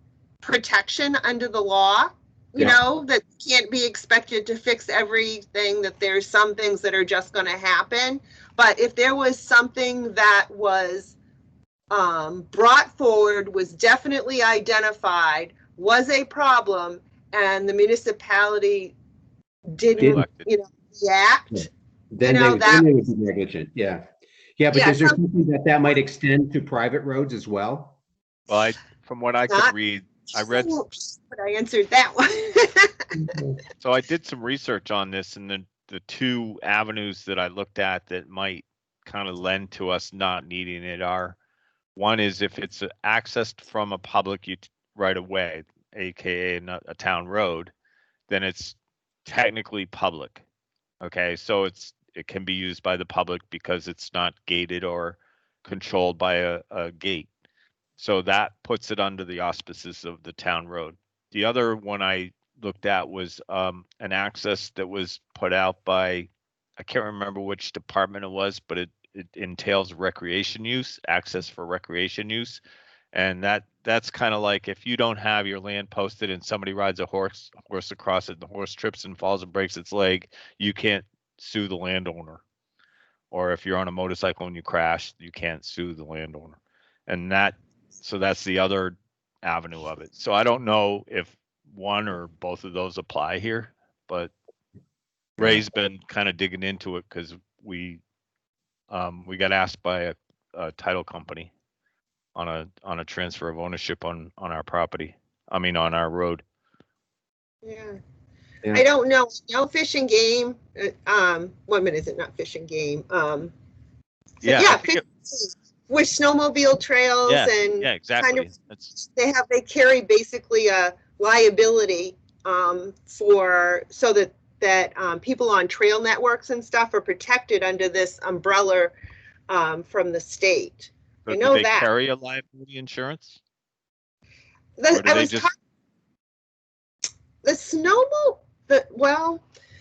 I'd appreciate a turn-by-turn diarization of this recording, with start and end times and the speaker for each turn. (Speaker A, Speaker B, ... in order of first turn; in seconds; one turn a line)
Speaker A: 0.4-11.1
Speaker A: 11.9-18.9
Speaker A: 19.7-21.7
Speaker B: 20.0-20.2
Speaker C: 20.0-20.5
Speaker B: 21.5-24.1
Speaker A: 22.2-22.9
Speaker B: 24.6-28.0
Speaker A: 24.7-25.2
Speaker C: 28.5-30.8
Speaker A: 30.4-33.3
Speaker B: 33.2-33.6
Speaker C: 33.8-41.4
Speaker C: 42.0-47.7
Speaker C: 48.3-50.4
Speaker C: 51.0-57.3
Speaker C: 58.0-72.6
Speaker C: 73.1-82.4
Speaker C: 83.3-86.6
Speaker C: 87.1-94.3
Speaker C: 95.4-98.0
Speaker C: 98.9-101.5
Speaker C: 102.3-106.4
Speaker A: 107.6-108.0
Speaker A: 108.7-113.5
Speaker A: 114.4-118.5
Speaker C: 114.4-115.0
Speaker C: 117.3-119.0
Speaker A: 119.0-129.0
Speaker A: 129.5-131.9
Speaker C: 131.3-133.4
Speaker A: 134.8-135.5
Speaker C: 134.9-135.5
Speaker A: 137.4-139.4